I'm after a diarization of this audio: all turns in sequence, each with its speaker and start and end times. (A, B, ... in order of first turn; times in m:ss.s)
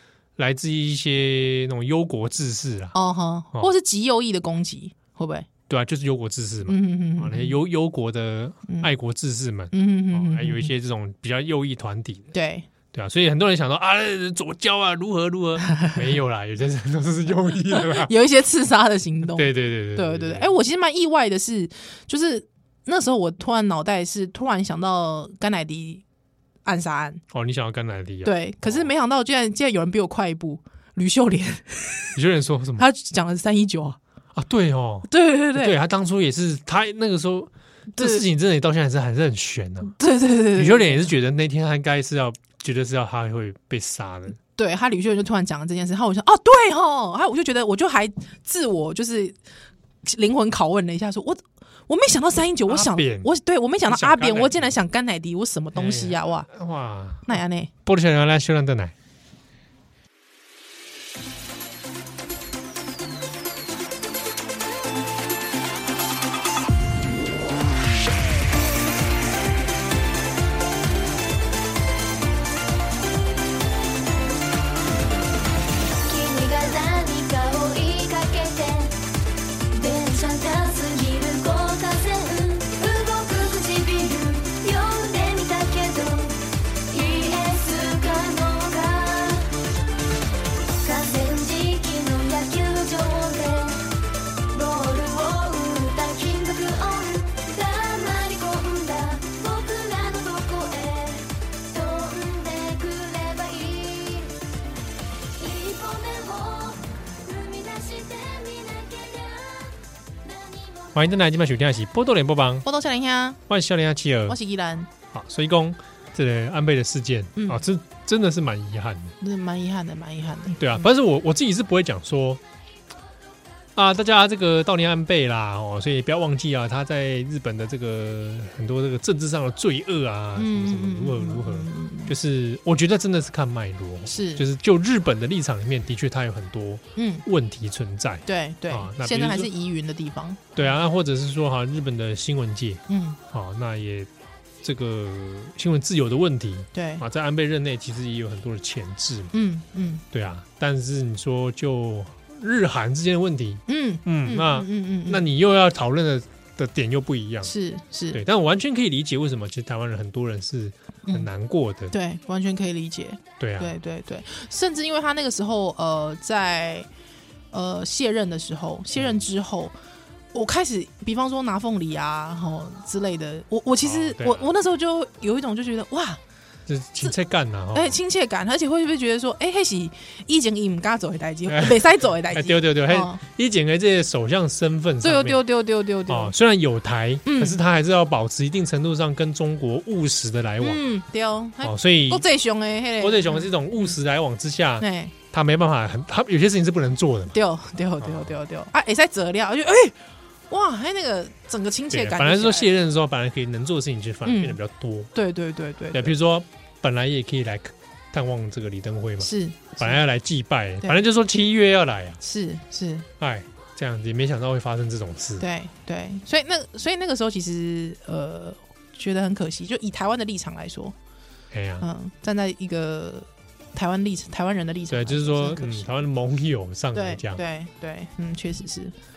0:00.4-0:02.9 A
0:02.9-0:05.5 B
0:05.7-0:12.3 A
0:06.7-0:07.6 B
0:09.7-0:10.7 B
0:12.3-0:12.7 B
0:12.9-0:18.1 A
0:17.7-0:26.0 B
0:19.3-0:20.5 A
0:26.6-0:27.2 B
0:27.3-0:28.9 A
0:28.2-0:32.1 B
0:32.1-0:32.8 A
0:32.8-0:34.0 B
0:34.3-0:39.9 A
0:35.1-0:35.7 B
0:37.9-0:38.2 B
0:40.0-0:41.1 B
0:40.5-0:44.4 A
0:44.6-0:49.4 B
0:50.0-0:56.5 B
0:52.7-0:53.3 A
0:53.9-0:54.7 A
0:55.7-0:58.9 A
0:57.2-0:57.7 B
1:16.0-1:19.0 C
1:19.7-1:29.5 C
1:30.8-1:33.9 C
1:34.5-1:44.4 C
1:45.3-1:51.0 C
1:50.9-1:52.6 A
1:52.6-1:53.4 B
1:53.5-1:54.4 A
1:54.3-1:54.9 B
1:55.1-1:59.1 A
1:57.4-1:57.6 B
1:59.2-2:00.9 B
2:00.6-2:02.4 A
2:03.7-2:19.5 A
2:10.4-2:12.1 B
2:14.1-2:14.4 B
2:17.0-2:17.2 B
2:18.2-2:20.6 B
2:20.6-2:24.1 A
2:22.9-2:23.2 B
2:24.6-2:29.3 A
2:26.7-2:27.0 B
2:29.3-2:30.0 B
2:30.1-2:37.5 A
2:33.7-2:35.2 B
2:37.4-2:38.2 B
2:38.1-2:41.9 A
2:41.9-2:46.9 B
2:43.4-2:43.8 A
2:47.5-2:49.7 B
2:49.0-2:49.2 A
2:50.3-2:56.2 B
2:53.8-2:54.5 A
2:56.7-2:58.0 A
2:57.7-3:03.2 B
3:01.5-3:05.4 A
3:05.0-3:06.3 B
3:06.1-3:10.8 A
3:07.2-3:07.6 B
3:10.6-3:13.9 B
3:11.6-3:12.2 A
3:13.0-3:17.4 A
3:14.8-3:15.1 B
3:17.3-3:20.0 B
3:18.0-3:18.3 A
3:20.5-3:22.7 B
3:21.9-3:25.1 A
3:24.2-3:24.6 B
3:25.1-3:26.1 B
3:25.9-3:32.2 A
3:29.2-3:30.0 B
3:32.2-3:33.1 B
3:33.2-3:35.4 A
3:35.4-3:41.0 B
3:41.5-3:41.8 A
3:41.8-3:45.9 B
3:44.9-3:47.4 A
3:46.9-3:48.9 B